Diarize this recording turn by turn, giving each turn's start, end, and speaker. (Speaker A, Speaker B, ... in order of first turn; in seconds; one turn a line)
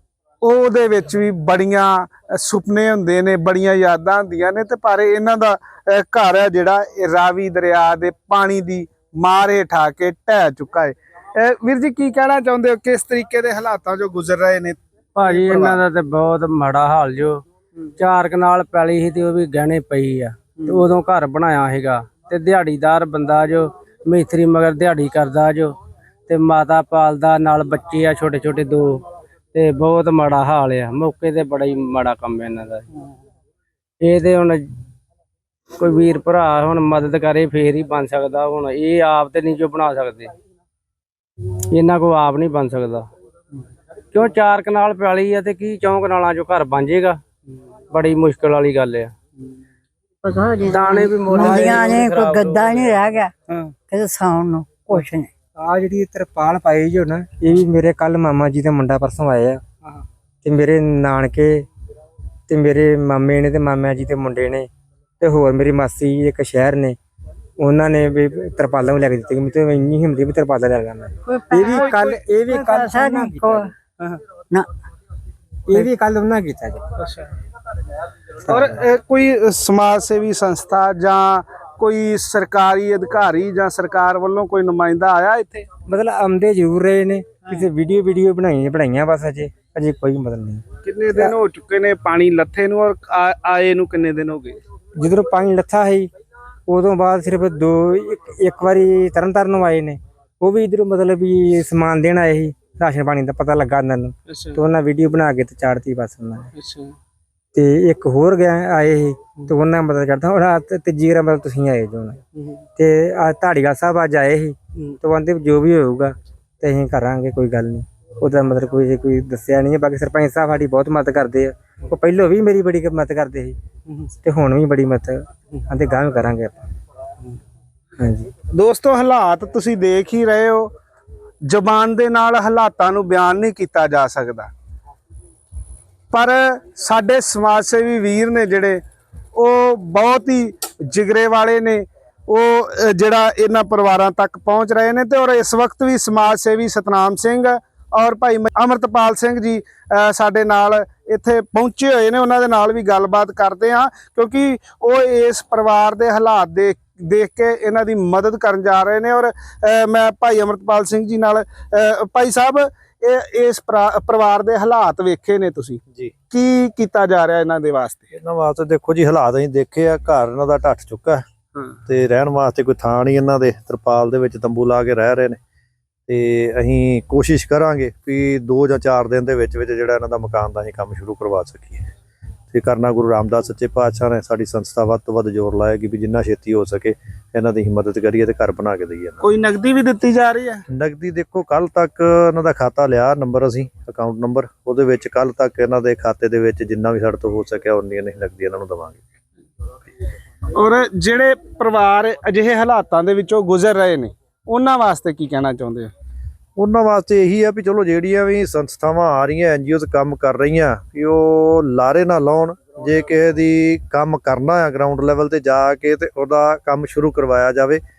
Speaker A: 0.4-15.8
Speaker B: 15.2-17.4
Speaker B: 18.0-25.8
Speaker B: 26.3-32.9
Speaker B: 34.0-34.6
Speaker B: 35.8-40.3
Speaker B: 41.7-43.1
Speaker B: 44.1-47.2
Speaker B: 47.9-49.1
Speaker C: 50.2-53.3
Speaker B: 50.7-53.0
Speaker A: 51.4-51.7
Speaker C: 53.9-55.3
Speaker D: 55.6-59.6
Speaker D: 60.4-61.7
Speaker D: 62.5-64.7
Speaker D: 65.2-67.0
Speaker D: 67.6-73.7
Speaker C: 71.3-73.7
Speaker A: 71.8-72.2
Speaker D: 75.7-76.8
Speaker A: 77.0-77.3
Speaker D: 78.5-78.8
Speaker A: 78.5-85.7
Speaker D: 85.9-90.6
Speaker A: 90.8-94.6
Speaker D: 95.0-96.1
Speaker D: 96.7-106.5
Speaker A: 104.3-104.6
Speaker A: 106.5-107.0
Speaker D: 107.5-112.2
Speaker D: 112.8-123.6
Speaker D: 124.2-126.7
Speaker D: 128.0-128.3
Speaker A: 128.5-130.7
Speaker A: 131.5-134.5
Speaker A: 136.1-138.8
Speaker A: 139.3-168.1
Speaker E: 168.1-171.2
Speaker E: 171.9-175.4
Speaker E: 176.1-181.9
Speaker E: 182.5-189.2
Speaker A: 189.2-190.6
Speaker E: 190.7-199.0
Speaker A: 200.6-205.9
Speaker E: 206.6-217.8